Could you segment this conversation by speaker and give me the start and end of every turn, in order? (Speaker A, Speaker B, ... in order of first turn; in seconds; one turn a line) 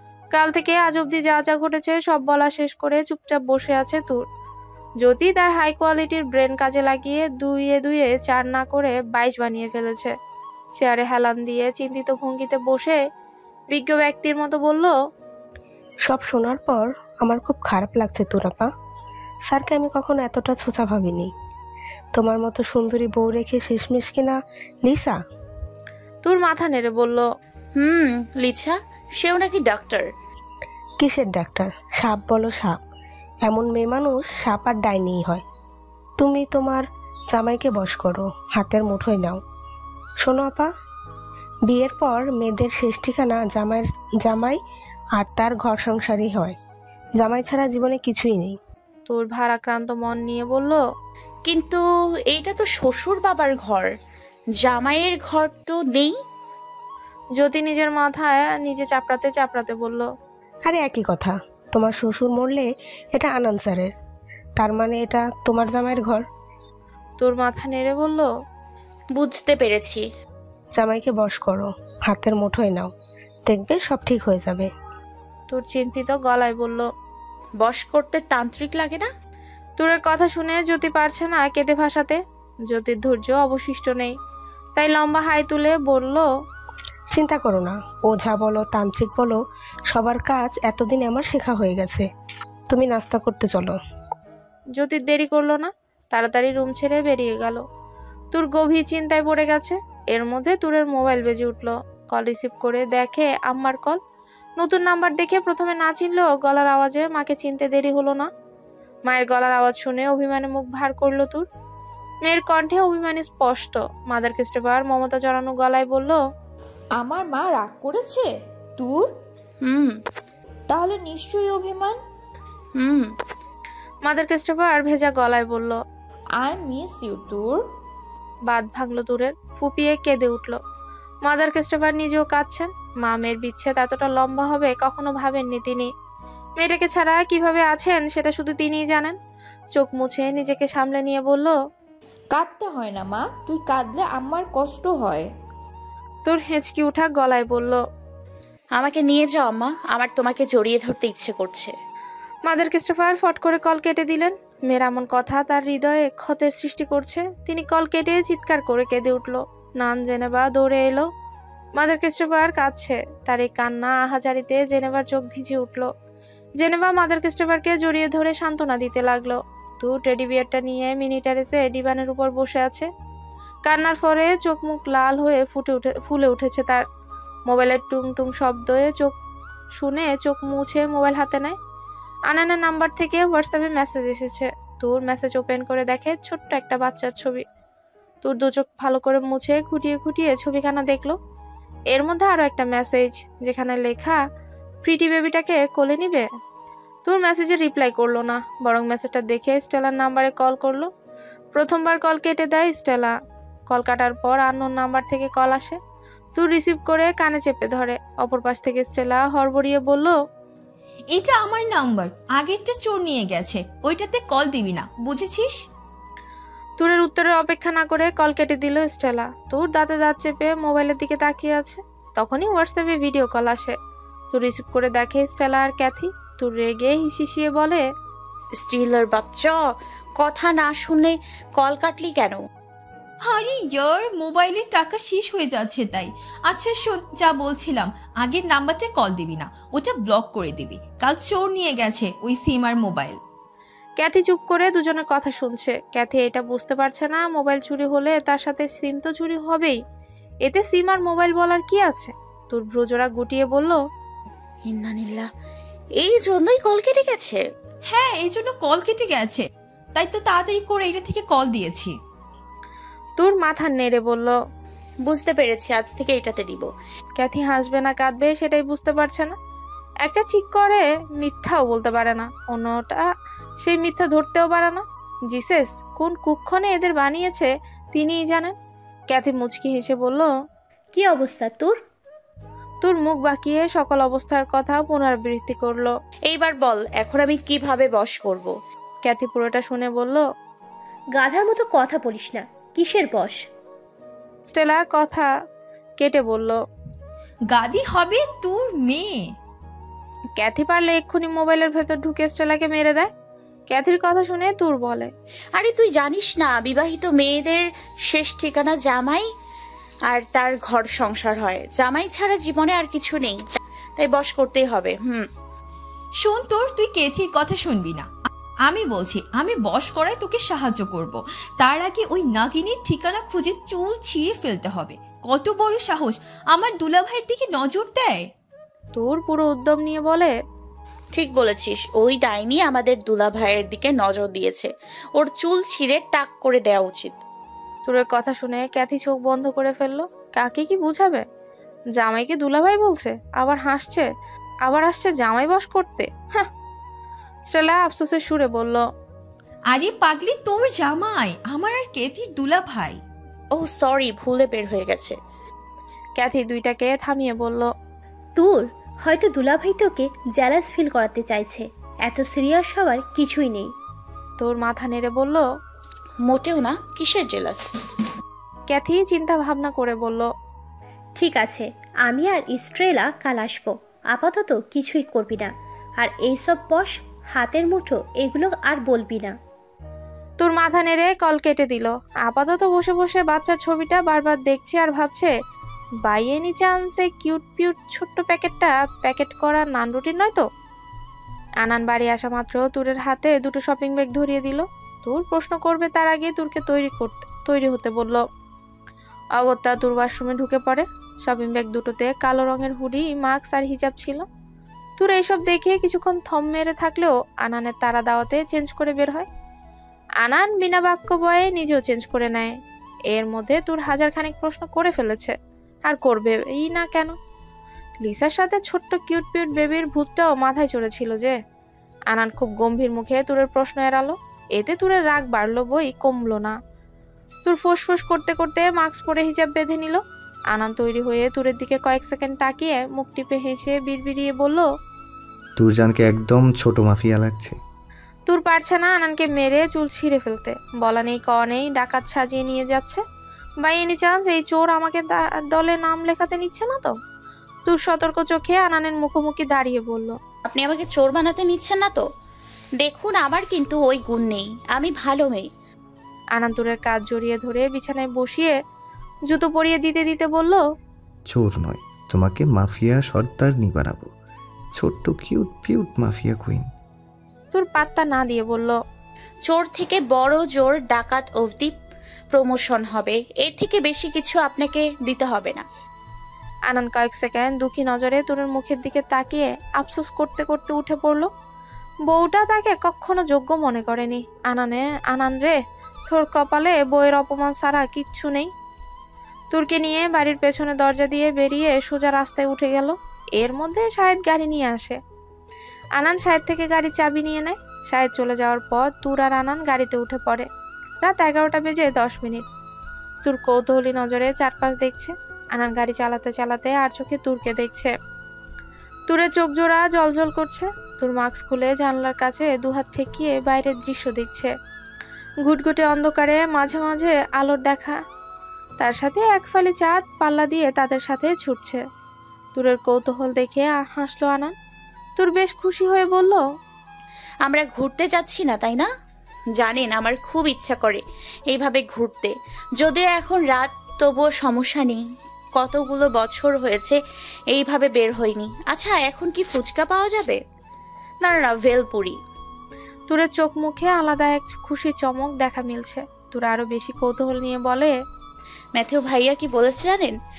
Speaker A: 0.3-4.2
Speaker A: 5.0-10.1
Speaker A: 10.8-13.0
Speaker A: 13.7-14.9
Speaker B: 16.1-18.7
Speaker B: 19.5-21.3
Speaker B: 22.1-25.2
Speaker A: 26.2-27.2
Speaker C: 27.8-30.1
Speaker B: 31.0-32.7
Speaker B: 33.5-35.4
Speaker B: 36.2-39.4
Speaker B: 40.2-40.7
Speaker B: 41.7-44.6
Speaker B: 45.2-46.5
Speaker B: 47.2-48.6
Speaker A: 49.1-50.8
Speaker C: 51.5-53.9
Speaker C: 54.6-56.1
Speaker A: 57.4-60.1
Speaker B: 60.7-63.9
Speaker B: 64.6-66.2
Speaker A: 67.2-68.3
Speaker C: 69.2-70.0
Speaker B: 70.8-72.9
Speaker B: 73.5-74.7
Speaker A: 75.5-76.9
Speaker C: 77.6-79.1
Speaker A: 79.8-84.1
Speaker A: 84.8-86.2
Speaker B: 87.2-89.4
Speaker B: 89.9-92.1
Speaker B: 92.7-93.7
Speaker A: 94.8-97.6
Speaker A: 98.3-104.0
Speaker A: 104.6-108.3
Speaker A: 109.1-111.5
Speaker A: 112.2-116.2
Speaker D: 117.0-119.2
Speaker C: 119.7-120.0
Speaker D: 120.7-122.0
Speaker C: 122.8-123.1
Speaker A: 124.1-125.8
Speaker D: 126.4-127.7
Speaker A: 128.5-130.6
Speaker A: 131.3-135.9
Speaker A: 136.6-139.2
Speaker A: 139.8-141.6
Speaker D: 142.3-145.3
Speaker A: 146.2-147.8
Speaker C: 148.8-151.7
Speaker A: 152.5-161.1
Speaker A: 161.8-165.9
Speaker A: 166.6-172.9
Speaker A: 173.7-176.8
Speaker A: 177.5-179.1
Speaker A: 179.8-181.6
Speaker A: 182.3-187.4
Speaker A: 188.2-191.2
Speaker A: 191.9-194.2
Speaker A: 194.8-196.3
Speaker A: 197.1-200.9
Speaker A: 201.5-203.1
Speaker A: 203.7-205.8
Speaker A: 206.4-210.2
Speaker E: 211.1-215.6
Speaker A: 216.8-223.8
Speaker A: 224.3-227.8
Speaker C: 228.6-229.6
Speaker C: 230.2-232.4
Speaker E: 233.2-243.2
Speaker A: 244.0-249.8
Speaker A: 250.5-253.8
Speaker C: 254.7-255.3
Speaker C: 256.0-257.4
Speaker E: 257.9-261.9
Speaker A: 263.2-264.4
Speaker C: 265.1-266.7
Speaker A: 267.2-269.3
Speaker A: 270.1-273.0
Speaker A: 273.6-278.5
Speaker A: 279.1-280.3
Speaker F: 280.9-281.8
Speaker A: 282.8-285.9
Speaker C: 286.3-288.5
Speaker A: 289.1-290.2
Speaker F: 291.1-293.4
Speaker A: 294.5-295.3
Speaker A: 296.0-296.6
Speaker E: 297.5-299.3
Speaker A: 300.4-303.1
Speaker A: 303.7-305.1
Speaker C: 305.6-309.3
Speaker C: 310.1-313.4
Speaker C: 314.0-315.2
Speaker E: 316.2-318.1
Speaker E: 318.7-328.3
Speaker A: 328.9-330.3
Speaker C: 331.2-337.2
Speaker A: 337.9-341.2
Speaker A: 342.0-344.1
Speaker A: 344.7-346.5
Speaker A: 347.5-348.8
Speaker E: 349.7-353.0
Speaker C: 353.5-355.2
Speaker A: 356.2-357.7
Speaker F: 358.4-363.7
Speaker A: 364.4-365.4
Speaker C: 366.2-367.6
Speaker A: 368.7-370.3
Speaker F: 371.2-379.4
Speaker A: 380.4-385.3
Speaker A: 386.1-390.4
Speaker A: 391.6-398.2
Speaker A: 399.4-404.2
Speaker A: 405.0-409.3
Speaker A: 410.2-412.6
Speaker A: 413.1-415.3
Speaker A: 415.9-417.1
Speaker A: 418.0-421.4
Speaker A: 422.1-426.6
Speaker A: 427.4-430.0
Speaker A: 430.5-434.7
Speaker G: 435.6-437.6
Speaker A: 438.3-443.0
Speaker A: 443.6-446.9
Speaker A: 447.7-450.2
Speaker C: 450.5-452.0
Speaker C: 452.8-455.5
Speaker A: 456.4-458.5
Speaker A: 459.3-460.6
Speaker G: 461.3-464.1
Speaker G: 464.8-466.7
Speaker A: 467.5-468.8
Speaker C: 469.5-471.7
Speaker C: 472.3-475.6
Speaker A: 476.7-481.3
Speaker A: 482.1-485.6
Speaker A: 486.1-488.5
Speaker A: 489.5-495.0
Speaker A: 496.0-500.5
Speaker A: 501.0-502.4
Speaker A: 503.2-507.9
Speaker A: 509.1-514.5
Speaker A: 515.5-518.0
Speaker A: 518.8-521.8
Speaker A: 522.5-524.5
Speaker A: 525.2-526.4
Speaker C: 527.5-528.9
Speaker C: 529.6-535.0
Speaker C: 535.6-537.0
Speaker C: 537.5-540.4
Speaker C: 541.2-542.2
Speaker A: 543.1-547.9
Speaker C: 548.8-550.1